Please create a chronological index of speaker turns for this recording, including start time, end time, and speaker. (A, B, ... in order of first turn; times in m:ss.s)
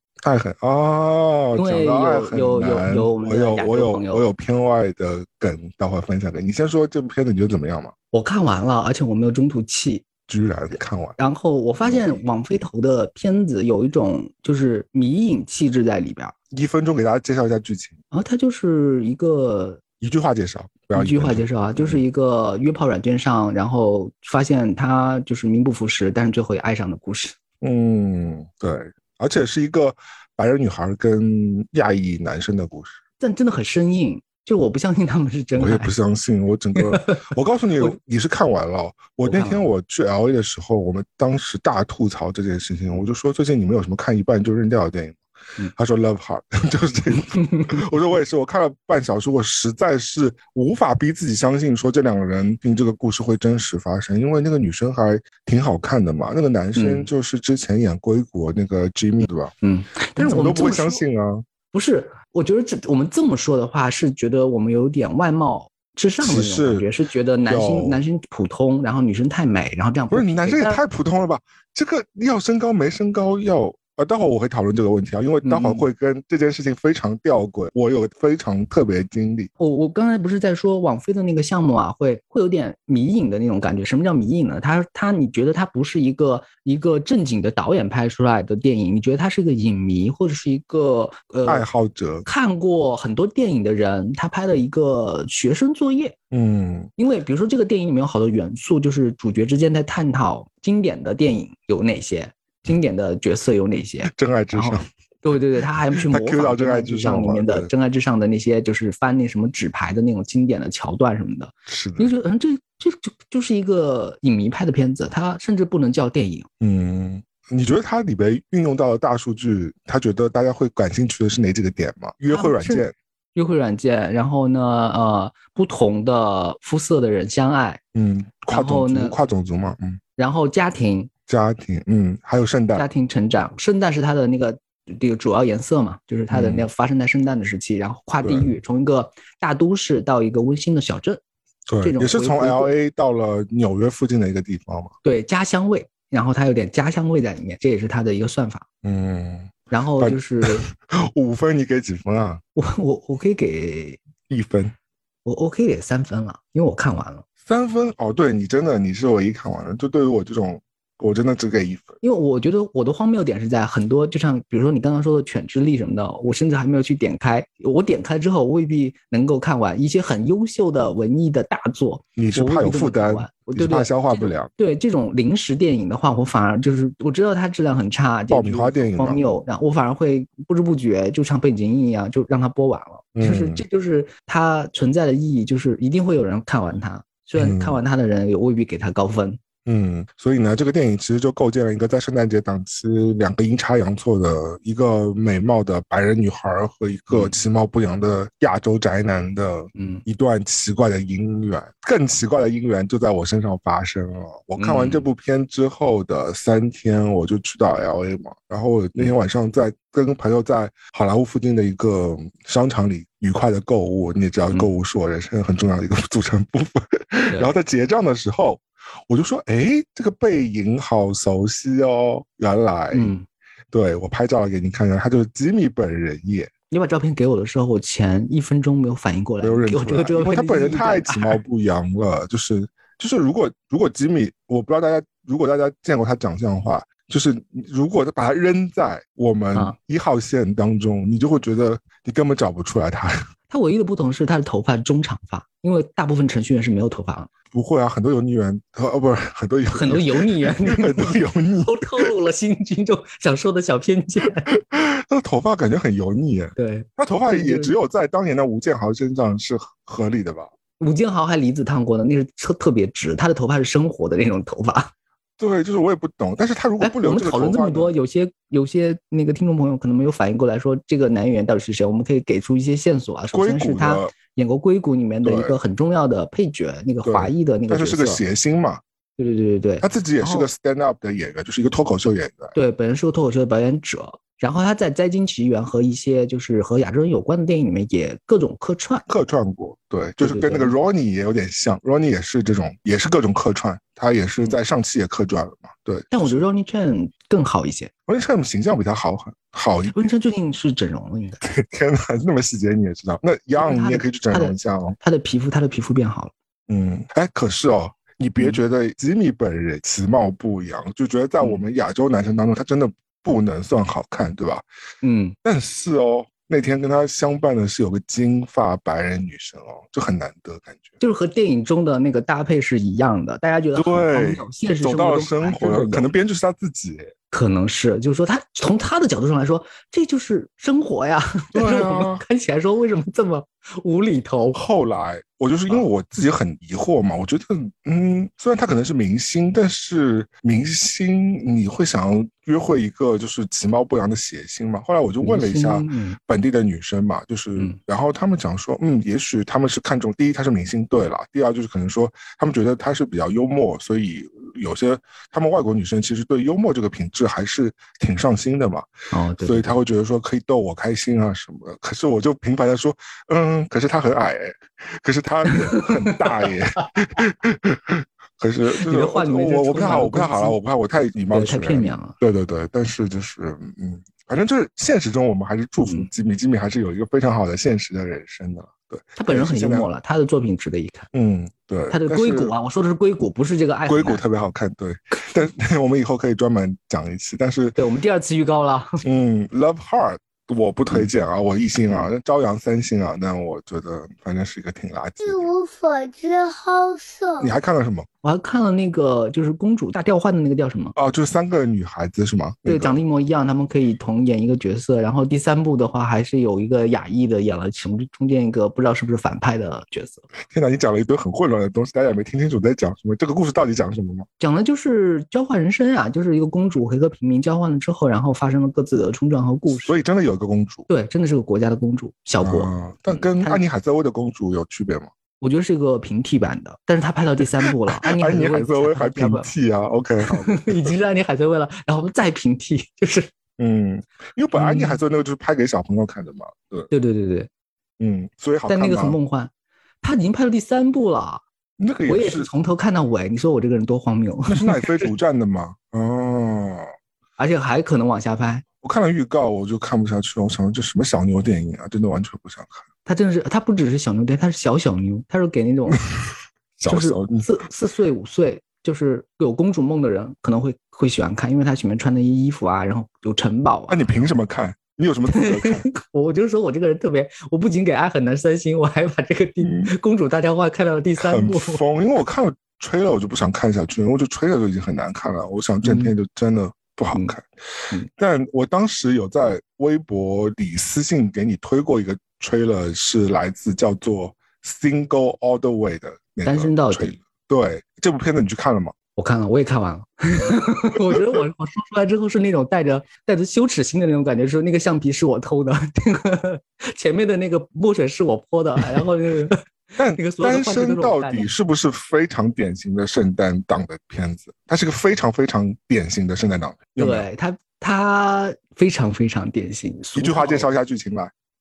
0:00.2-0:07.9 A
0:01.6-0:04.2 B
0:08.1-0:10.1 B
0:10.3-0:11.2 A
0:11.2-0:16.3 B
0:11.8-0:12.2 A
0:16.5-0:18.0 A
0:18.1-0:19.8 B
0:20.0-0:22.0 A
0:21.0-0:27.4 B
0:27.6-0:33.0 A
0:33.2-0:35.9 B
0:35.6-0:45.2 A
0:36.8-0:37.3 B
0:39.3-0:39.6 B
0:45.8-0:59.5 A
0:47.1-0:47.8 B
0:56.8-0:57.1 B
0:59.6-1:01.0 B
1:00.2-1:01.4 A
1:01.7-1:10.8 B
1:06.2-1:06.9 A
1:07.5-1:08.0 A
1:10.1-1:19.5 A
1:15.4-1:15.8 B
1:19.6-1:31.7 B
1:31.5-1:32.3 A
1:32.2-1:36.2 B
1:36.3-1:36.9 A
1:37.0-1:56.5 B
1:44.1-1:45.4 A
1:46.0-1:47.7 A
1:51.7-1:52.1 A
1:56.6-2:02.9 A
2:02.3-2:07.8 B
2:07.9-2:10.0 A
2:08.5-2:09.2 B
2:10.2-2:11.1 B
2:11.3-2:12.9 A
2:12.8-2:21.2 B
2:16.3-2:16.7 A
2:18.2-2:18.5 A
2:21.7-2:25.0 A
2:21.8-2:22.7 B
2:25.0-2:28.6 B
2:28.8-2:32.4 A
2:29.7-2:30.7 B
2:32.6-2:34.0 B
2:34.3-2:34.8 A
2:35.2-2:37.2 B
2:37.4-2:42.0 A
2:42.0-3:09.4 B
2:52.2-2:54.5 A
2:58.3-2:59.2 A
3:03.2-3:03.6 A
3:07.4-3:07.8 A
3:09.7-3:43.1 A
3:17.1-3:17.4 B
3:19.8-3:20.0 B
3:24.6-3:25.1 B
3:42.9-3:43.2 B
3:43.7-3:46.5 A
3:46.7-3:51.4 B
3:49.4-4:03.2 A
4:03.5-4:07.3 B
4:07.5-4:12.1 A
4:09.7-4:14.5 B
4:14.5-4:20.5 A
4:16.6-4:17.8 B
4:20.8-4:24.9 B
4:25.4-4:27.9 A
4:26.8-4:38.2 B
4:33.3-4:34.2 A
4:35.2-4:35.6 A
4:37.0-4:38.8 A
4:39.2-4:40.5 B
4:39.8-4:42.6 A
4:42.6-4:49.0 B
4:49.1-4:56.4 A
4:50.2-4:50.8 B
4:56.1-4:57.9 B
4:58.1-5:00.1 A
4:59.9-5:01.4 B
5:01.4-5:05.0 A
5:03.6-5:06.3 B
5:06.7-5:14.6 A
5:15.0-5:15.4 B
5:15.4-5:21.0 A
5:21.0-5:26.1 B
5:23.8-5:27.1 A
5:27.3-5:34.6 B
5:31.5-5:32.2 A
5:34.5-5:58.9 A
5:45.2-5:46.2 B
5:59.1-5:59.7 B
5:59.4-6:19.9 A
6:05.5-6:06.8 B
6:08.8-6:10.6 B
6:11.3-6:12.2 B
6:19.2-6:21.1 B
6:21.1-6:22.5 A
6:21.9-6:24.2 B
6:23.9-6:27.8 A
6:27.8-6:29.0 B
6:29.0-6:35.5 A
6:35.2-6:37.5 C
6:37.4-6:38.1 A
6:38.2-6:41.0 B
6:41.0-6:43.0 A
6:42.6-6:50.3 B
6:50.5-6:54.3 A
6:54.4-7:00.0 B
6:59.7-7:00.9 A
7:00.9-7:03.6 B
7:02.4-7:05.1 A
7:05.4-7:09.5 B
7:07.9-7:10.9 A
7:10.2-7:13.3 B
7:13.6-7:16.9 A
7:14.5-7:15.0 B
7:16.9-7:17.5 B
7:18.0-7:19.2 A
7:18.7-7:19.5 B
7:20.0-7:21.4 B
7:21.8-7:22.5 A
7:22.1-7:25.1 B
7:24.5-7:26.9 A
7:27.4-7:28.6 B
7:28.8-7:32.9 A
7:33.1-7:36.0 B
7:36.8-7:37.5 A
7:36.9-7:44.2 B
7:43.9-7:45.9 A
7:45.3-7:51.8 B
7:49.6-7:49.9 A
7:51.2-7:57.5 A
7:55.8-7:56.1 B
7:58.1-8:08.9 A
8:06.4-8:07.2 B
8:09.2-8:19.6 B
8:10.9-8:11.4 A
8:20.0-8:27.3 A
8:20.2-8:21.5 B
8:27.0-8:30.7 B
8:30.2-8:31.3 A